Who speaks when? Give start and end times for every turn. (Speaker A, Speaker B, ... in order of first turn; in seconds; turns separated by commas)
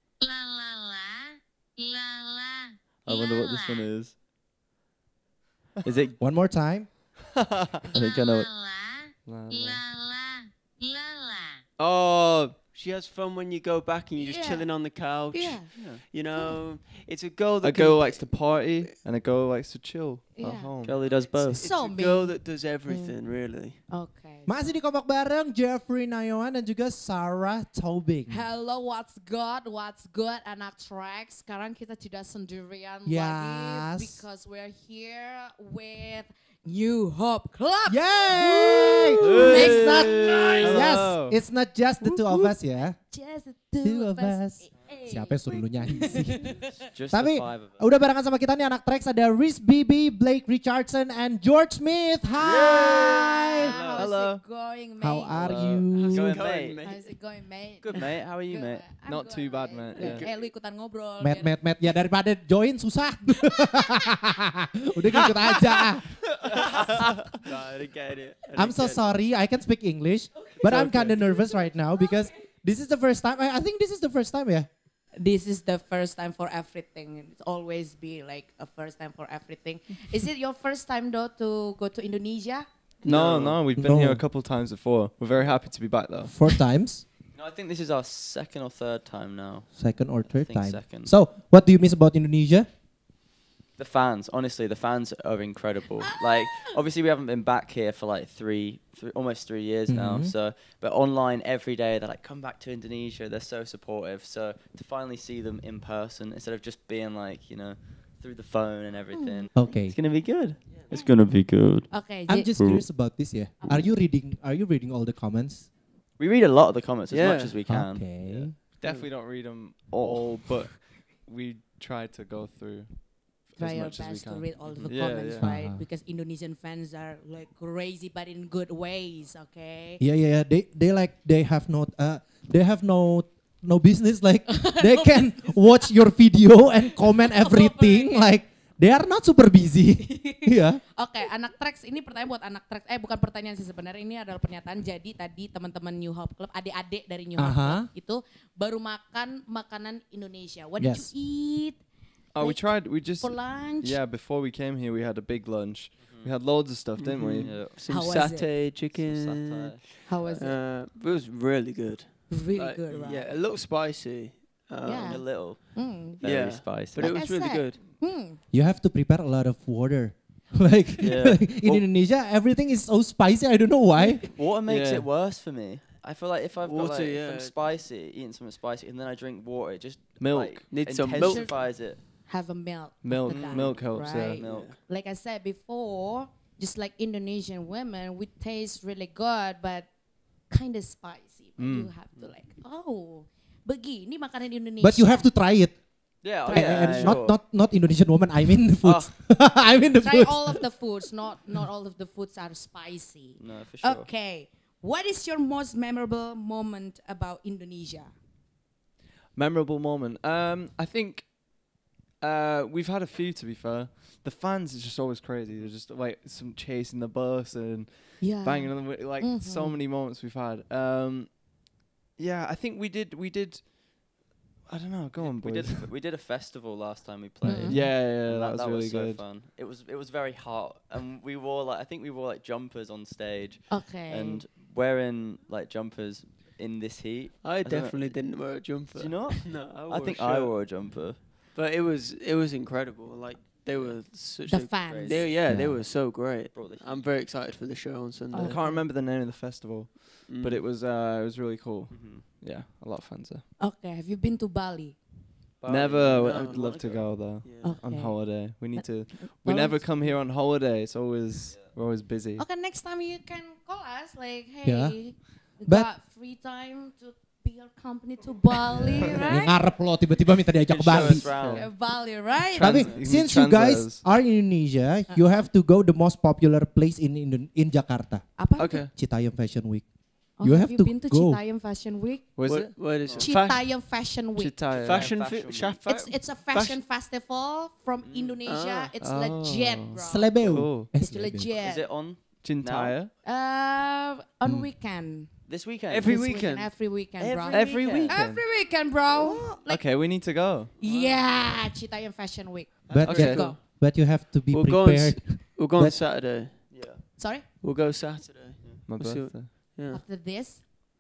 Speaker A: 0.2-3.8, Speaker B: 3.0-4.2, Speaker B: 5.8-6.2, Speaker C: 6.2-6.9, Speaker B: 7.9-8.5, Speaker A: 8.0-11.2, Speaker D: 9.3-9.8, Speaker D: 11.8-12.6, Speaker E: 12.7-18.9, Speaker F: 14.2-14.7, Speaker F: 15.3-15.7, Speaker B: 15.7-16.0, Speaker A: 17.6-18.3, Speaker D: 17.9-20.9, Speaker F: 20.4-20.7, Speaker B: 20.8-21.7, Speaker E: 21.2-23.8, Speaker F: 21.4-23.2, Speaker F: 23.9-24.5, Speaker C: 24.5-28.5, Speaker F: 28.3-40.9, Speaker C: 33.0-34.2, Speaker C: 37.9-43.0, Speaker D: 39.2-41.2, Speaker A: 40.7-41.2, Speaker F: 43.0-46.9, Speaker C: 43.8-46.6, Speaker B: 46.9-47.8, Speaker C: 47.1-53.8, Speaker F: 52.4-55.8, Speaker E: 52.4-54.1, Speaker A: 54.0-54.4, Speaker C: 55.0-56.4, Speaker B: 55.4-56.8, Speaker E: 56.0-57.2, Speaker F: 56.8-61.5, Speaker E: 57.8-58.1, Speaker B: 57.9-58.8, Speaker D: 59.1-60.1, Speaker A: 59.1-60.1, Speaker E: 59.9-60.5, Speaker C: 61.2-66.1, Speaker E: 65.8-69.0, Speaker C: 68.6-74.7, Speaker E: 70.6-71.3, Speaker F: 71.5-71.7, Speaker F: 75.2-82.7, Speaker E: 83.0-83.6, Speaker D: 83.1-86.3, Speaker A: 83.1-84.5, Speaker C: 83.8-84.2, Speaker C: 86.3-87.0, Speaker B: 87.4-91.1, Speaker C: 89.7-92.7, Speaker B: 93.8-111.9, Speaker C: 99.9-100.3, Speaker F: 109.1-109.7, Speaker C: 109.5-110.0, Speaker F: 111.9-112.6, Speaker C: 112.3-115.7, Speaker B: 112.6-112.8, Speaker F: 113.6-113.9, Speaker B: 116.2-118.5, Speaker E: 117.1-117.6, Speaker C: 117.7-118.5, Speaker E: 118.8-119.1, Speaker A: 119.1-120.5, Speaker D: 119.2-123.0, Speaker B: 120.0-120.2, Speaker A: 121.1-121.9, Speaker F: 123.6-130.0, Speaker D: 123.6-125.4, Speaker B: 124.7-125.0, Speaker A: 124.9-125.4, Speaker C: 125.4-125.8, Speaker C: 130.0-140.8, Speaker F: 134.5-136.0, Speaker F: 136.9-138.4, Speaker F: 140.0-151.8, Speaker C: 147.4-147.9, Speaker C: 150.8-151.1, Speaker A: 152.4-153.2, Speaker F: 152.4-154.1, Speaker D: 152.4-157.1, Speaker A: 155.9-157.5, Speaker E: 157.0-165.3, Speaker B: 157.4-157.8, Speaker F: 157.9-158.5, Speaker B: 158.9-160.5, Speaker F: 160.1-160.6, Speaker F: 162.3-163.3, Speaker F: 164.8-166.2, Speaker B: 164.9-167.2, Speaker E: 166.2-167.8, Speaker F: 167.0-168.4, Speaker C: 168.5-174.3, Speaker B: 171.0-171.9, Speaker B: 174.3-182.0, Speaker E: 176.6-177.6, Speaker A: 180.3-180.5, Speaker E: 180.7-181.5, Speaker F: 181.2-189.9, Speaker D: 183.0-184.4, Speaker A: 183.1-184.3, Speaker B: 184.2-184.7, Speaker E: 184.3-184.8, Speaker F: 190.5-195.3, Speaker D: 191.6-191.9, Speaker C: 194.8-195.8, Speaker B: 196.2-197.4, Speaker F: 196.4-197.2, Speaker C: 196.4-200.6, Speaker B: 198.8-199.1, Speaker F: 200.0-208.1, Speaker B: 203.4-204.1, Speaker D: 209.3-211.3, Speaker D: 212.2-221.2, Speaker A: 215.4-215.7, Speaker F: 218.2-219.8, Speaker A: 218.9-220.0, Speaker D: 222.2-223.6, Speaker D: 224.8-225.2, Speaker A: 225.2-225.8, Speaker B: 225.2-238.2, Speaker F: 227.4-227.9, Speaker C: 227.5-227.8, Speaker A: 227.7-229.2, Speaker D: 228.0-228.3, Speaker F: 233.7-234.4, Speaker E: 237.4-240.6, Speaker B: 238.8-241.2, Speaker E: 241.5-248.6, Speaker B: 243.7-244.0, Speaker F: 244.5-245.3, Speaker B: 244.9-245.3, Speaker C: 245.5-245.8, Speaker B: 246.5-247.1, Speaker F: 248.3-248.9, Speaker D: 248.4-253.4, Speaker A: 248.5-251.0, Speaker E: 250.3-250.6, Speaker B: 251.9-252.2, Speaker A: 252.5-253.0, Speaker F: 253.6-255.0, Speaker B: 255.6-257.1, Speaker A: 255.7-257.2, Speaker E: 256.2-257.8, Speaker D: 257.0-262.4, Speaker F: 257.6-260.2, Speaker A: 257.9-259.8, Speaker A: 261.3-262.0, Speaker F: 262.4-269.7, Speaker C: 264.6-265.9, Speaker D: 268.8-269.1, Speaker C: 269.2-271.3, Speaker B: 270.7-271.7, Speaker F: 271.0-272.8, Speaker C: 272.6-278.2, Speaker B: 272.6-273.0, Speaker A: 272.7-273.9, Speaker D: 272.8-273.8, Speaker F: 275.1-275.4, Speaker F: 278.4-278.9, Speaker D: 278.6-278.9, Speaker C: 278.9-279.9, Speaker F: 280.4-282.3, Speaker C: 280.4-281.4, Speaker A: 282.4-282.7, Speaker E: 282.4-283.7, Speaker F: 283.0-284.6, Speaker B: 283.0-283.3, Speaker D: 284.4-284.7, Speaker A: 284.7-285.0, Speaker E: 284.7-286.8, Speaker B: 284.9-285.8, Speaker F: 285.8-292.0, Speaker B: 288.1-288.4, Speaker E: 288.5-288.9, Speaker A: 289.1-289.6, Speaker D: 289.1-290.9, Speaker C: 290.0-291.6, Speaker A: 290.5-290.9, Speaker B: 291.6-293.0, Speaker D: 292.4-293.1, Speaker A: 292.5-293.1, Speaker F: 293.2-295.3, Speaker B: 295.5-296.2, Speaker E: 295.9-296.7, Speaker F: 296.0-300.0, Speaker B: 297.2-298.2, Speaker A: 297.5-298.3, Speaker D: 297.8-298.4, Speaker D: 299.8-300.6, Speaker A: 299.8-300.7, Speaker F: 300.8-303.6, Speaker E: 300.9-301.6, Speaker E: 302.9-303.6, Speaker C: 302.9-306.0, Speaker E: 304.5-310.0, Speaker B: 306.7-307.0, Speaker F: 307.2-307.5, Speaker A: 309.0-309.6, Speaker F: 309.7-310.6